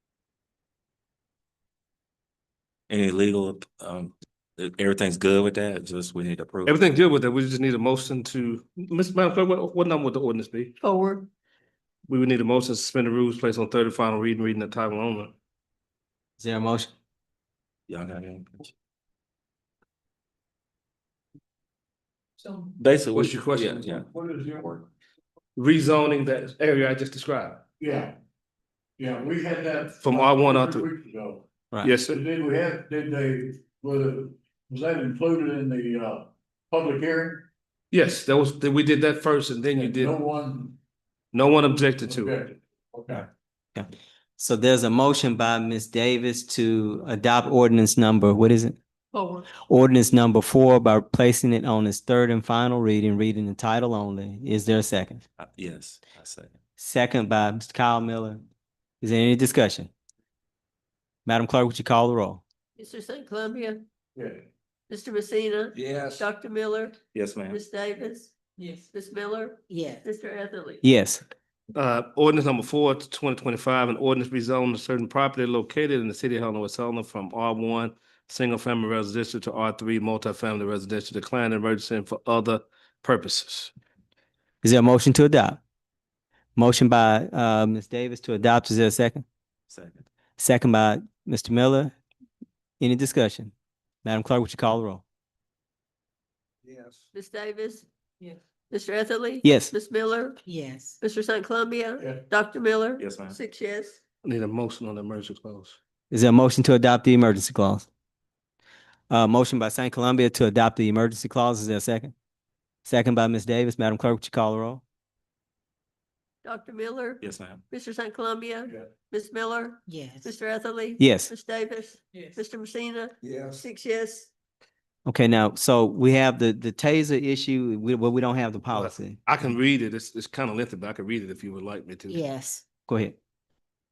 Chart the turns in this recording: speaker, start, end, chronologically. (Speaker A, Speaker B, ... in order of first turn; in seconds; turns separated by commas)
Speaker A: 2.9-6.8, Speaker B: 6.7-10.7, Speaker C: 10.8-11.3, Speaker B: 12.1-15.3, Speaker D: 16.4-16.9, Speaker A: 17.9-18.7, Speaker E: 22.4-22.7, Speaker A: 22.8-24.1, Speaker B: 23.1-23.9, Speaker E: 24.0-24.9, Speaker B: 25.6-27.6, Speaker E: 27.8-28.2, Speaker E: 29.0-31.4, Speaker B: 30.0-30.9, Speaker B: 31.8-32.2, Speaker E: 32.0-37.5, Speaker B: 37.9-40.1, Speaker E: 39.8-40.8, Speaker B: 41.3-42.4, Speaker E: 42.0-43.2, Speaker D: 43.7-48.8, Speaker C: 49.1-49.5, Speaker D: 49.6-55.2, Speaker A: 55.4-56.5, Speaker D: 56.8-58.4, Speaker D: 59.0-59.9, Speaker D: 61.2-62.4, Speaker C: 62.8-63.8, Speaker E: 64.2-64.4, Speaker C: 64.9-67.0, Speaker A: 65.8-66.2, Speaker A: 67.1-67.6, Speaker C: 67.5-70.8, Speaker F: 69.7-70.0, Speaker D: 70.8-71.2, Speaker B: 71.7-83.7, Speaker D: 84.6-85.6, Speaker D: 86.5-89.2, Speaker A: 89.7-90.0, Speaker D: 90.4-91.9, Speaker D: 92.8-93.5, Speaker D: 94.0-95.0, Speaker E: 96.7-97.0, Speaker C: 97.1-100.4, Speaker D: 99.4-99.7, Speaker F: 100.5-101.0, Speaker C: 101.0-104.0, Speaker A: 103.0-103.4, Speaker B: 104.2-105.8, Speaker D: 106.1-107.8, Speaker D: 109.1-112.1, Speaker D: 112.8-114.8, Speaker C: 116.4-124.3, Speaker A: 117.2-117.6, Speaker F: 119.9-120.3, Speaker D: 121.0-121.3, Speaker A: 123.2-123.6, Speaker D: 125.0-129.2, Speaker B: 128.7-132.3, Speaker F: 132.1-132.6, Speaker D: 132.9-133.2